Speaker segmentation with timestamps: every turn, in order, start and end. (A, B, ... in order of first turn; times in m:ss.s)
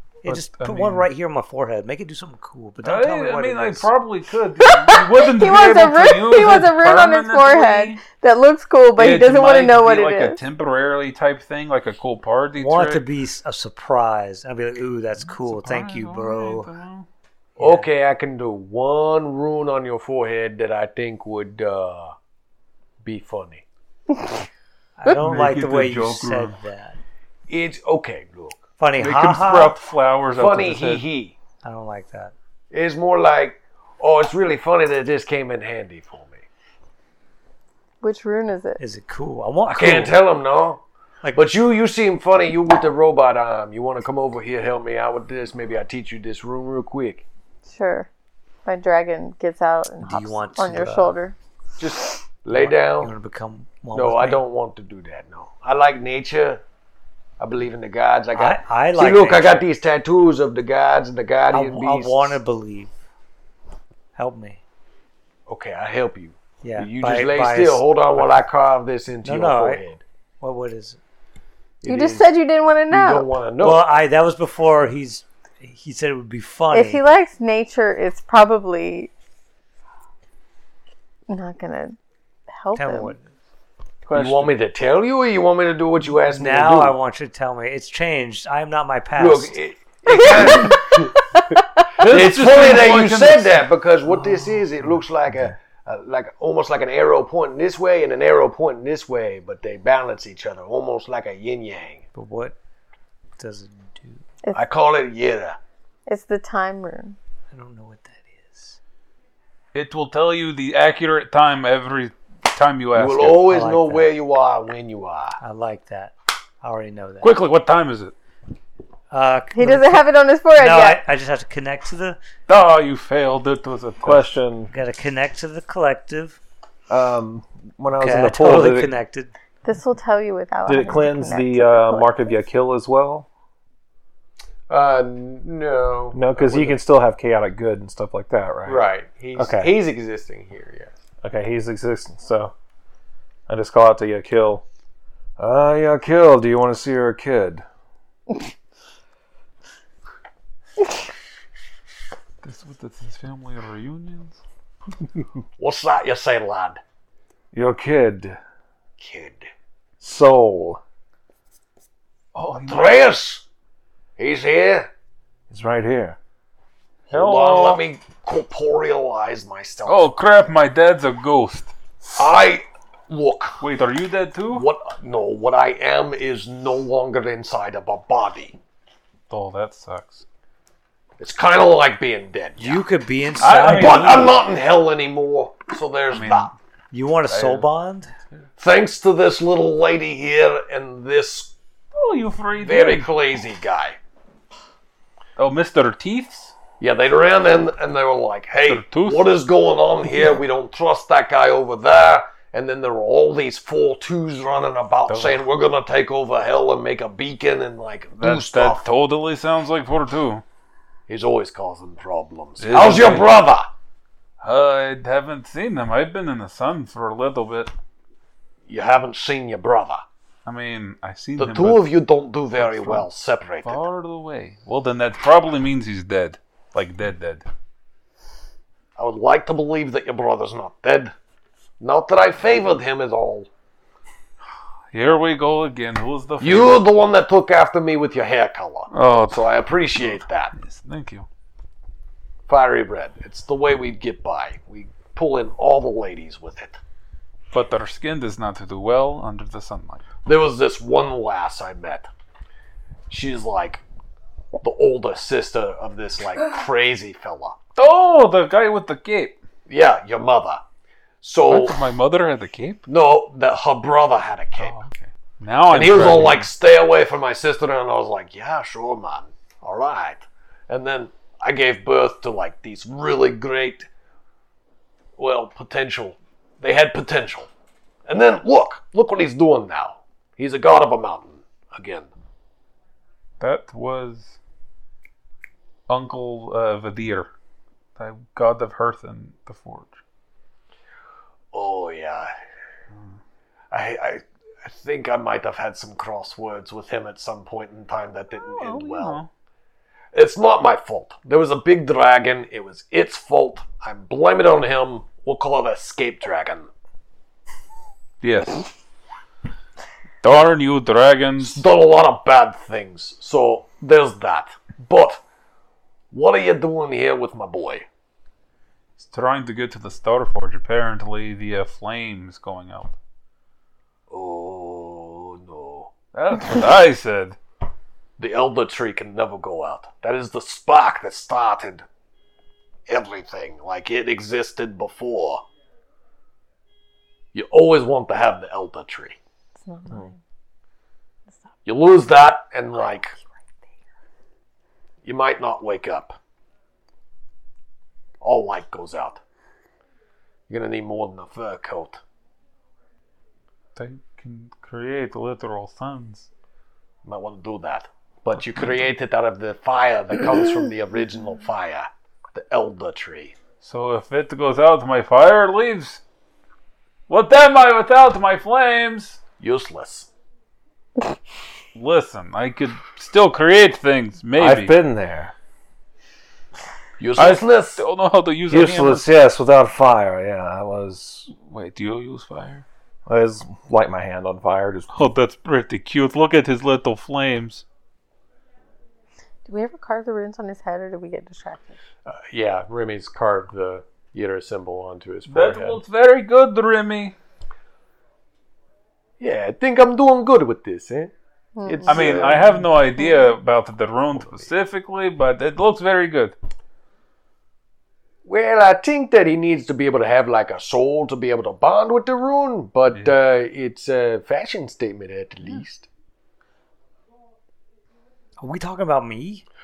0:00.2-0:03.9 A
0:00.2-0:01.1 B
0:02.8-0:08.0 B
0:04.6-0:10.4 C
0:09.0-0:13.0 B
0:12.6-0:16.7 A
0:15.2-0:17.1 B
0:17.6-0:17.9 A
0:17.6-0:22.2 D
0:23.0-0:23.6 D
0:25.0-0:27.0 A
0:25.1-0:26.6 B
0:27.5-0:28.6 D
0:28.8-0:29.8 A
0:29.0-0:31.0 B
0:30.3-0:31.4 D
0:31.6-0:32.3 A
0:32.7-0:36.4 D
0:38.0-0:38.8 C
0:38.8-0:40.2 A
0:39.7-0:40.8 D
0:41.3-0:47.2 D
0:47.6-0:48.1 C
0:48.6-0:51.4 C
0:50.0-0:51.2 A
0:51.8-0:53.1 D
0:52.5-0:54.4 A
0:53.9-0:56.6 D
0:57.4-1:02.4 D
0:58.3-0:59.6 A
1:01.5-1:02.9 A
1:04.2-1:04.6 A
1:05.5-1:10.0 D
1:06.6-1:08.3 A
1:09.2-1:09.8 A
1:10.4-1:11.0 A
1:11.8-1:12.3 D
1:11.9-1:13.3 C
1:12.9-1:13.8 D
1:13.6-1:17.0 A
1:16.7-1:19.1 C
1:21.3-1:22.0 C
1:22.5-1:23.2 C
1:22.8-1:23.3 A
1:24.1-1:27.0 D
1:24.1-1:24.5 B
1:26.2-1:29.6 A
1:29.2-1:31.2 D
1:32.0-1:33.7 B
1:32.0-1:42.0 D
1:42.1-1:42.6 A
1:43.4-1:44.3 A
1:44.5-1:45.6 D
1:46.1-1:47.2 C
1:47.5-1:48.8 A
1:49.7-1:53.5 B
1:53.0-1:55.4 D
1:53.5-1:54.1 A
1:55.4-1:57.3 A
1:57.2-1:58.2 B
1:59.1-2:02.2 A
1:59.5-2:01.0 C
2:02.5-2:04.3 B
2:04.0-2:04.7 E
2:04.7-2:06.4 A
2:06.9-2:09.0 E
2:07.9-2:09.3 A
2:09.6-2:12.4 C
2:10.7-2:13.3 E
2:14.7-2:16.8 D
2:16.1-2:19.7 E
2:18.6-2:20.9 D
2:21.2-2:22.5 E
2:23.5-2:24.6 E
2:25.4-2:27.6 E
2:32.4-2:34.4 B
2:35.6-2:36.8 D
2:37.5-2:38.4 E
2:39.0-2:39.5 D
2:40.0-2:40.8 E
2:42.3-2:43.1 B
2:42.5-2:43.4 D
2:44.2-2:44.9 D
2:45.5-2:46.2 E
2:47.1-2:47.8 B
2:47.1-2:50.1 D
2:49.8-2:51.7 B
2:52.2-2:53.7 D
2:53.6-2:54.7 B
2:54.5-2:58.6 D
2:59.3-3:00.2 B
3:01.2-3:02.8 D
3:02.6-3:04.4 A
3:03.4-3:04.3 B
3:03.6-3:06.5 D
3:06.1-3:06.6 B
3:06.9-3:08.1 A
3:07.3-3:07.6 B
3:08.6-3:11.6 D
3:12.0-3:13.1 B
3:12.6-3:14.0 D
3:15.4-3:16.5 B
3:16.8-3:28.9 D
3:18.6-3:19.3 B
3:25.1-3:25.4 B
3:28.2-3:30.4 B
3:31.1-3:33.7 D
3:32.6-3:33.3 B
3:34.4-3:37.7 B
3:38.7-3:40.0 D
3:40.4-3:41.9 B
3:41.4-3:43.8 D
3:42.6-3:43.1 B
3:43.6-3:47.5 B
3:49.0-3:51.1 D
3:51.8-3:53.5 D
3:54.9-3:56.8 B
3:56.4-4:00.5 D
3:58.9-4:01.3 B
4:02.5-4:06.8 D
4:07.5-4:10.0 B
4:10.2-4:12.1 D
4:13.1-4:13.8 D
4:14.6-4:17.6 D
4:17.8-4:19.4 B
4:19.7-4:20.6 D
4:21.2-4:21.8 D
4:21.5-4:22.8 B
4:22.9-4:24.8 D
4:24.6-4:26.5 B
4:25.7-4:33.9 D
4:35.2-4:37.5 D
4:38.1-4:42.1 D
4:43.4-4:44.4 B
4:45.9-4:47.3 B
4:48.0-4:50.0 B
4:51.5-4:52.3 D
4:53.7-4:59.2 D
4:58.4-4:59.3 B
5:00.1-5:06.7 D
5:08.2-5:08.7 B
5:10.2-5:11.6 B
5:11.4-5:15.2 D
5:16.1-5:17.9 D
5:19.0-5:23.0 B
5:24.1-5:25.9 D
5:26.1-5:27.4 B
5:28.2-5:31.9 D
5:32.9-5:35.4 D
5:37.3-5:39.2 D
5:39.6-5:40.2 C
5:41.6-5:43.2 D
5:45.0-5:46.2 D
5:48.2-5:49.2 D
5:50.5-5:52.0 D
5:53.8-5:56.3 B
5:57.0-6:03.4 D
6:03.6-6:06.0 B
6:07.1-6:09.2 B
6:09.4-6:10.1 D
6:11.8-6:14.7 B
6:14.4-6:15.3 E
6:17.0-6:17.8 D
6:17.2-6:19.1 B
6:18.5-6:21.3 E
6:21.3-6:22.6 B
6:23.1-6:24.9 E
6:24.9-6:27.6 B
6:29.4-6:31.8 C
6:32.1-6:35.8 D
6:35.3-6:37.2 B
6:39.2-6:41.1 D
6:41.6-6:43.2 C
6:41.6-6:42.7 D
6:41.9-6:46.4 B
6:44.2-6:44.5 D
6:48.2-6:55.9 D
6:58.4-6:59.4 A